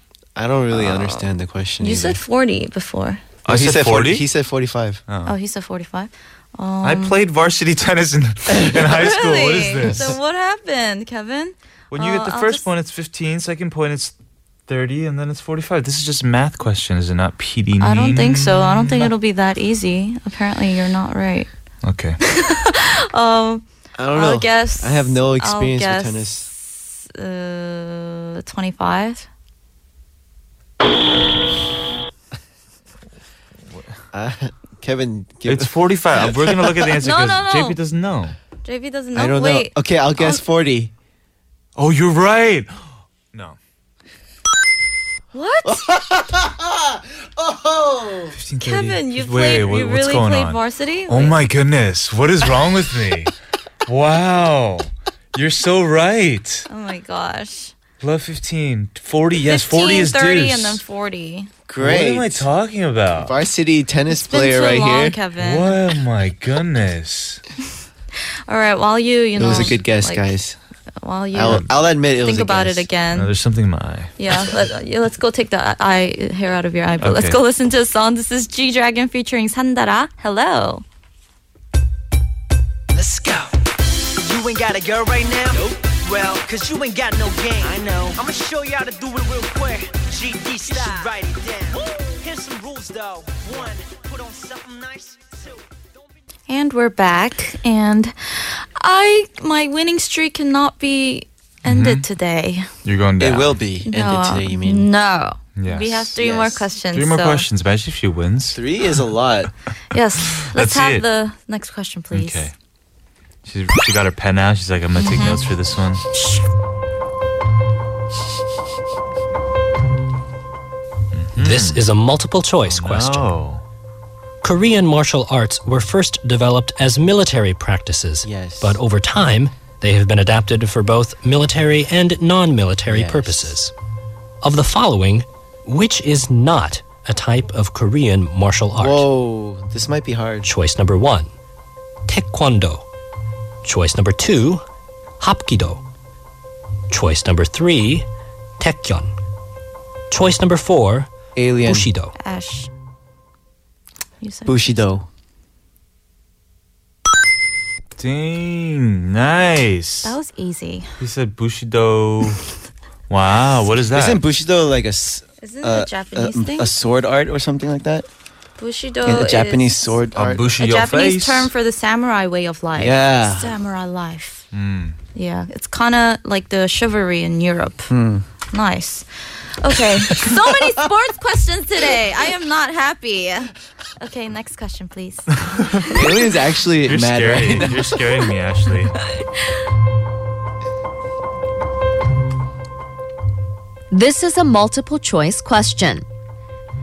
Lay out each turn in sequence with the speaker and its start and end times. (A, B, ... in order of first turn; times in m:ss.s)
0:00.4-0:02.2 A
0:00.7-0:01.3 B
0:01.8-0:03.2 B
0:03.4-0:04.3 C
0:03.5-0:05.0 A
0:05.1-0:05.4 C
0:05.2-0:07.2 B
0:06.8-0:10.2 C
0:08.9-0:12.7 B
0:11.9-0:14.1 C
0:14.7-0:19.1 C
0:17.8-0:21.5 B
0:21.8-0:22.2 C
0:22.2-0:29.3 B
0:24.0-0:26.5 A
0:34.1-0:36.8 A
0:35.5-0:38.4 C
0:37.0-0:37.8 B
0:38.6-0:40.4 B
0:39.2-0:40.9 A
0:41.8-0:43.6 C
0:45.3-0:45.9 B
0:45.6-0:48.4 A
0:48.4-0:53.3 C
0:48.6-0:51.4 B
0:53.9-0:56.7 C
0:56.7-0:57.7 B
0:58.0-1:00.8 C
0:59.4-1:01.5 B
1:01.7-1:02.5 A
1:01.8-1:03.3 C
1:03.1-1:05.2 A
1:04.1-1:05.8 B
1:05.4-1:07.4 C
1:08.5-1:10.3 B
1:09.4-1:10.6 A
1:09.4-1:09.8 C
1:11.0-1:13.3 B
1:11.3-1:12.9 A
1:13.1-1:14.1 C
1:14.2-1:20.8 B
1:17.0-1:17.4 C
1:23.0-1:23.4 A
1:24.2-1:35.6 D
1:27.6-1:28.1 A
1:30.7-1:31.0 A
1:36.5-1:42.7 B
1:41.6-1:42.0 C
1:42.8-1:43.6 C
1:43.2-1:44.9 A
1:43.9-1:47.5 B
1:45.6-1:46.2 C
1:46.2-1:46.6 A
1:46.9-1:48.7 C
1:48.5-1:49.5 A
1:49.9-1:52.5 B
1:50.4-1:51.0 C
1:52.1-1:52.5 C
1:53.4-1:56.0 C
1:55.0-1:55.4 B
2:01.1-2:01.8 C
2:01.4-2:03.3 E
2:02.6-2:03.6 C
2:04.4-2:13.7 E
2:08.2-2:08.8 A
2:12.9-2:13.6 A
2:14.4-2:19.1 E
2:18.8-2:20.5 A
2:20.4-2:21.3 E
2:22.1-2:22.9 E
2:23.6-2:24.6 E
2:25.2-2:25.8 E
2:26.9-2:28.1 E
2:28.6-2:29.1 E
2:30.1-2:31.1 E
2:31.4-2:31.9 A
2:31.6-2:32.2 E
2:32.2-2:32.7 B
2:34.2-2:35.0 B
2:34.5-2:35.1 A
2:38.0-2:40.2 C
2:40.0-2:40.9 B
2:41.0-2:42.4 C
2:43.1-2:44.2 C
2:43.9-2:48.1 A
2:45.4-2:46.7 B
2:48.6-2:50.0 B
2:49.0-2:50.5 A
2:50.2-2:51.5 C
2:50.6-2:54.4 B
2:52.8-2:53.5 A
2:54.5-2:55.0 C
2:55.2-2:57.9 B
2:57.9-2:58.2 A
2:58.5-3:06.0 B
3:00.1-3:00.5 A
3:05.4-3:05.9 C
3:05.9-3:08.0 A
3:06.8-3:09.0 C
3:13.9-3:16.0 F